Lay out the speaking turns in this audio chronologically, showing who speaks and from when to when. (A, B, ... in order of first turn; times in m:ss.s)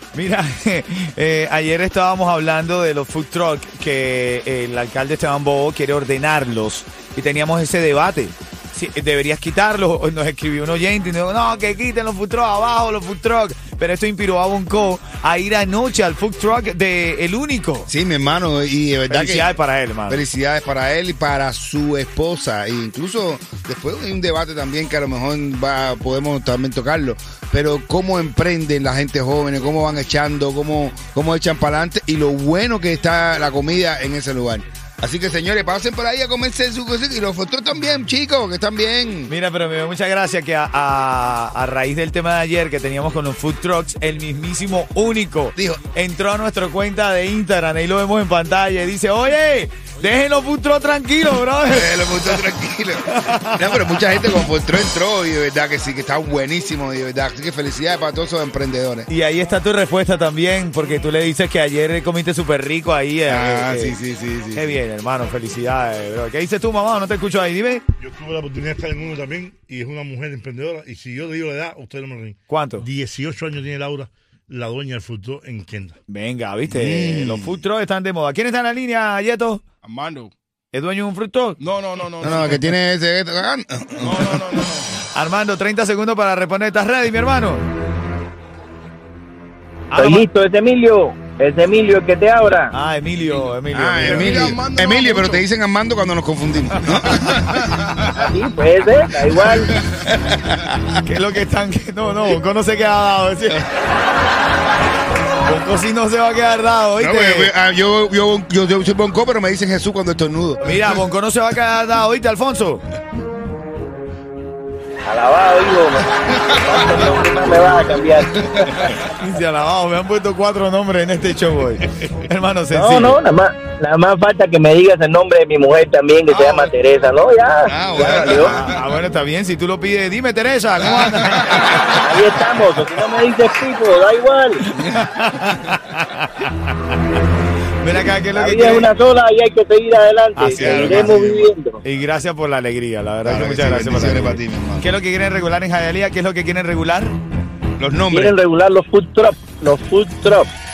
0:00.1-0:17.9 A
0:17.9-0:19.5 B
0:19.1-0:20.2 A
0:20.1-0:39.3 B
0:39.3-0:52.4 A
0:51.7-0:59.1 B
0:53.1-0:53.6 A
0:59.1-1:04.0 A
1:03.3-1:04.7 B
1:04.5-1:07.8 A
1:08.0-1:16.0 C
1:12.5-1:12.9 A
1:16.1-1:19.6 A
1:16.7-1:17.6 B
1:19.8-1:20.3 D
1:20.7-1:21.6 A
1:21.6-1:22.7 D
1:22.2-1:24.6 B
1:24.0-1:24.9 D
1:25.1-1:27.6 A
1:29.9-1:30.3 A
1:30.0-1:32.7 E
1:32.7-1:34.6 A
1:33.4-1:35.4 D
1:33.7-1:37.8 B
1:36.8-1:37.6 A
1:38.3-1:39.6 E
1:39.5-1:41.0 B
1:41.0-1:43.7 A
1:45.4-1:47.5 A
1:47.0-1:51.0 B
1:50.6-1:52.8 A
1:55.1-1:58.3 E
1:58.7-2:03.2 A
2:02.8-2:08.5 E
2:06.3-2:06.7 D
2:07.7-2:08.8 B
2:08.0-2:12.0 A
2:12.1-2:14.6 E
2:14.7-2:16.7 A
2:17.8-2:19.0 A
2:18.3-2:21.8 E
2:20.4-2:21.3 A
2:20.5-2:21.5 B
2:21.8-2:27.2 A
2:23.2-2:24.9 B
2:27.8-2:28.4 B
2:28.1-2:30.5 E